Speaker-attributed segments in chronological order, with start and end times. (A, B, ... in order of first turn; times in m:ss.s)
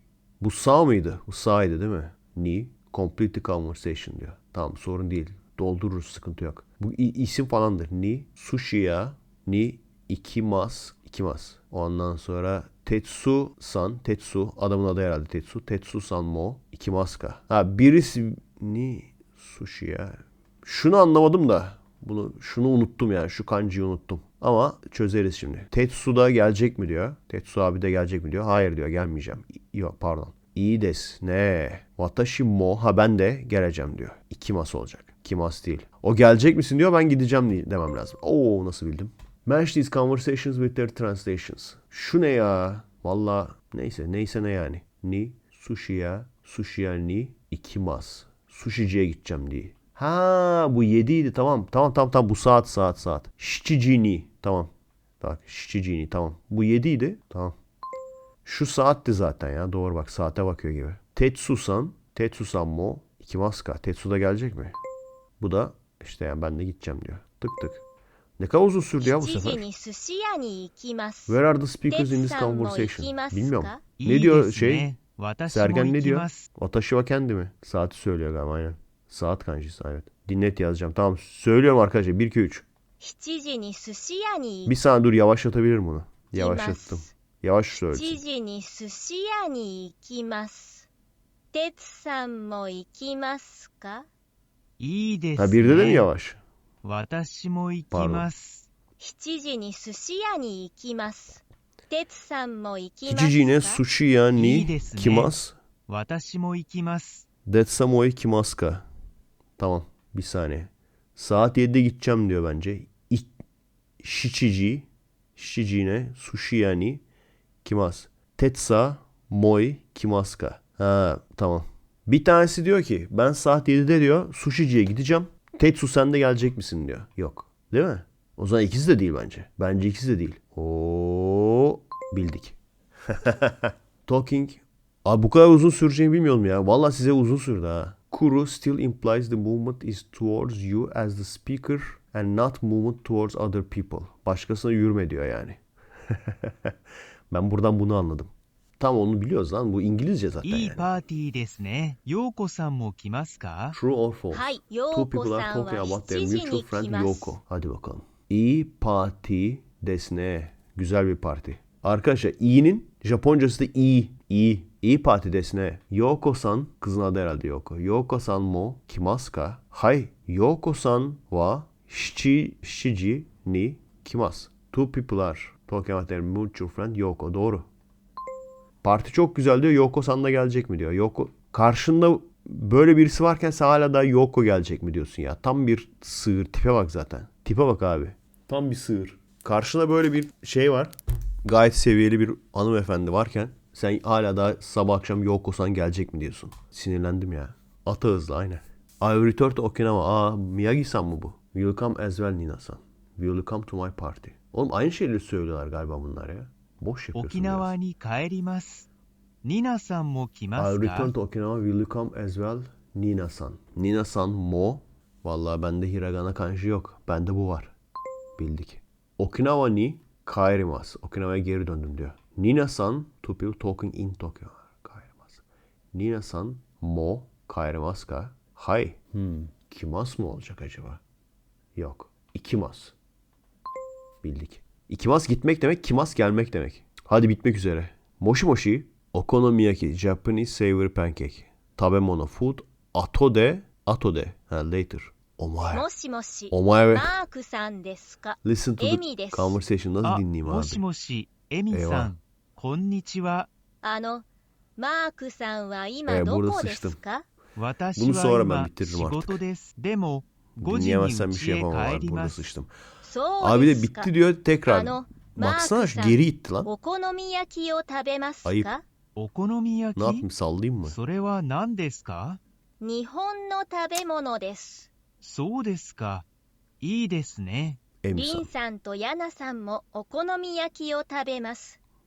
0:00.4-0:57.6 A
0:58.4-1:04.8 A
1:05.4-1:07.8 A
1:08.4-1:09.6 A
1:09.0-1:13.8 B
1:11.3-1:14.9 A
1:14.0-1:16.4 C
1:15.5-1:22.6 A
1:23.0-1:24.7 B
1:24.6-1:28.2 A
1:26.3-1:27.1 B
1:27.7-1:30.9 B
1:31.5-1:34.0 B
1:34.8-1:36.1 C
1:35.4-1:36.4 A
1:36.8-1:38.7 C
1:37.9-1:38.3 A
1:39.0-1:43.8 B
1:43.0-1:45.5 A
1:44.3-1:45.4 C
1:45.9-1:47.2 C
1:47.4-1:48.8 A
1:49.6-1:53.3 A
1:54.0-1:57.0 A
1:57.6-2:12.6 A
2:13.1-2:25.6 A
2:26.1-2:26.7 A
2:27.3-2:30.9 A
2:30.4-2:33.8 C
2:33.7-2:57.7 A
2:34.3-2:37.3 B
2:58.8-3:10.9 A
3:11.4-3:27.7 A
3:27.1-3:28.9 C
3:29.4-3:31.1 C
3:30.5-3:37.7 A
3:38.4-3:51.0 A
3:51.7-3:52.9 A
3:54.2-4:05.9 A
4:05.7-4:09.6 B
4:06.5-4:07.2 A
4:08.4-4:10.8 A
4:10.0-4:13.5 C
4:11.7-4:12.1 A
4:13.8-4:14.2 B
4:14.8-4:17.2 B
4:16.1-4:17.0 A
4:17.6-4:22.5 C
4:18.0-4:19.4 A
4:20.6-4:22.7 A
4:23.0-4:24.1 B
4:23.4-4:26.7 A
4:24.6-4:28.8 B
4:28.4-4:28.7 A
4:29.2-4:30.2 C
4:30.0-4:31.0 A
4:30.8-4:32.4 C
4:32.8-4:34.9 B
4:35.2-4:36.2 C
4:36.8-4:37.8 C
4:38.0-4:38.5 A
4:38.1-4:41.8 B